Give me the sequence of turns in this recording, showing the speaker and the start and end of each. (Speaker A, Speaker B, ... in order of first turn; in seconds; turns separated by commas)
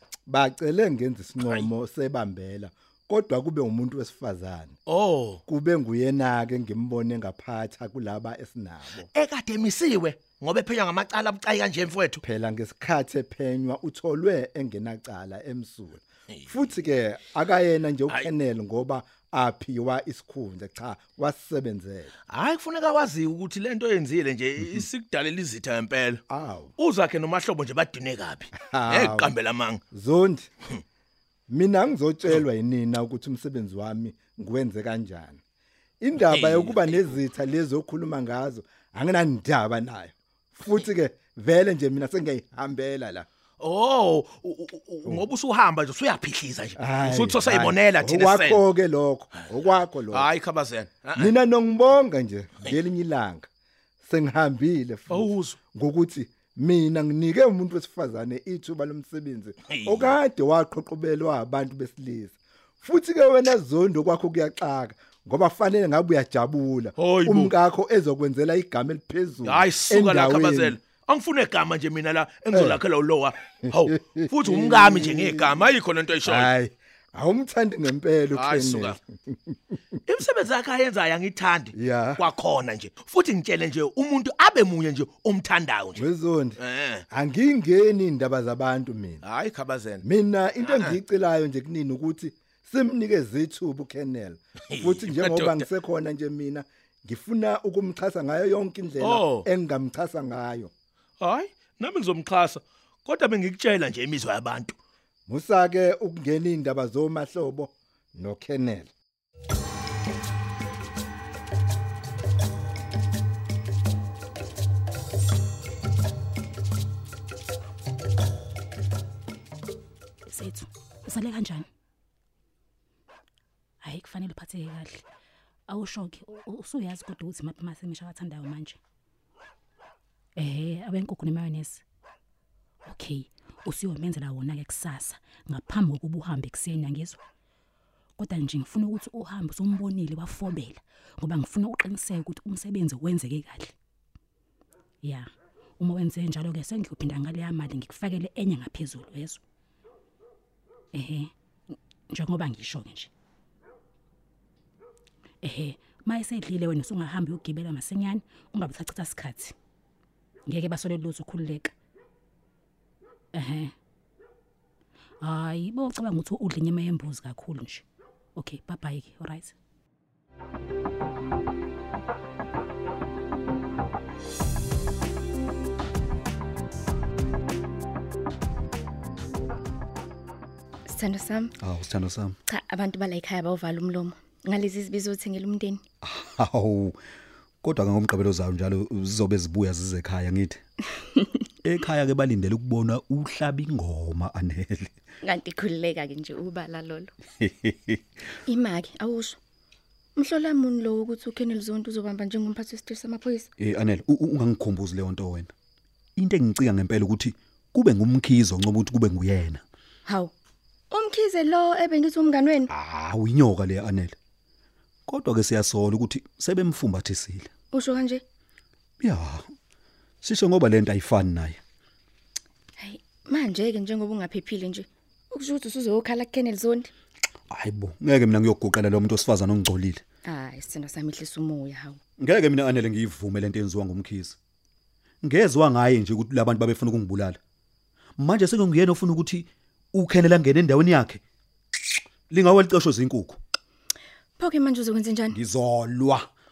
Speaker A: 0.3-4.8, Speaker B: 4.9-5.4, Speaker A: 5.5-9.1, Speaker B: 9.1-12.2, Speaker A: 12.2-22.1, Speaker B: 16.3-16.6, Speaker B: 22.3-26.2, Speaker A: 26.3-26.7, Speaker B: 26.8-29.8, Speaker A: 28.7-29.3, Speaker A: 29.9-30.5, Speaker A: 31.5-35.4, Speaker A: 36.0-43.3, Speaker B: 36.2-37.2, Speaker B: 43.6-48.6, Speaker A: 46.8-50.3, Speaker B: 50.1-51.4, Speaker A: 51.1-53.5, Speaker A: 54.0-70.8, Speaker B: 55.1-55.6, Speaker B: 59.7-60.1, Speaker B: 67.0-67.5, Speaker B: 69.4-76.5, Speaker A: 72.5-72.8, Speaker A: 73.7-75.7, Speaker A: 76.2-79.5, Speaker B: 78.3-79.0, Speaker B: 80.1-86.0, Speaker A: 81.7-82.2, Speaker A: 86.0-86.6, Speaker B: 86.6-87.0, Speaker A: 87.1-89.2, Speaker B: 89.2-90.0, Speaker A: 90.0-100.7, Speaker B: 90.6-91.0, Speaker B: 94.7-95.7, Speaker B: 99.0-99.5, Speaker B: 101.2-104.7, Speaker A: 105.3-108.9, Speaker C: 120.2-121.7, Speaker C: 123.8-125.0, Speaker C: 125.7-128.8, Speaker C: 130.3-131.8, Speaker C: 132.8-137.2, Speaker C: 138.2-143.7, Speaker C: 145.0-149.4, Speaker C: 150.9-151.3, Speaker C: 152.1-153.1, Speaker C: 155.4-159.5, Speaker C: 160.5-161.7, Speaker C: 163.3-163.7, Speaker C: 165.2-167.8, Speaker C: 168.3-169.5, Speaker D: 180.9-181.5, Speaker E: 181.6-182.3, Speaker D: 182.5-185.8, Speaker E: 186.0-187.0, Speaker E: 187.6-190.6, Speaker E: 191.6-194.9, Speaker D: 195.2-197.1, Speaker E: 197.4-198.0, Speaker D: 198.5-199.4, Speaker D: 200.2-203.5, Speaker E: 203.6-205.5, Speaker E: 206.2-209.6, Speaker D: 210.1-210.3, Speaker D: 210.9-212.7, Speaker E: 212.7-214.2, Speaker E: 215.1-217.5, Speaker D: 217.7-218.2, Speaker E: 219.0-219.5, Speaker E: 220.2-221.6, Speaker D: 222.8-226.9, Speaker E: 227.5-230.0, Speaker D: 230.2-232.0, Speaker E: 232.2-234.4, Speaker E: 235.2-237.4, Speaker E: 238.2-241.2, Speaker E: 242.3-243.4, Speaker D: 244.4-245.4, Speaker E: 245.3-246.2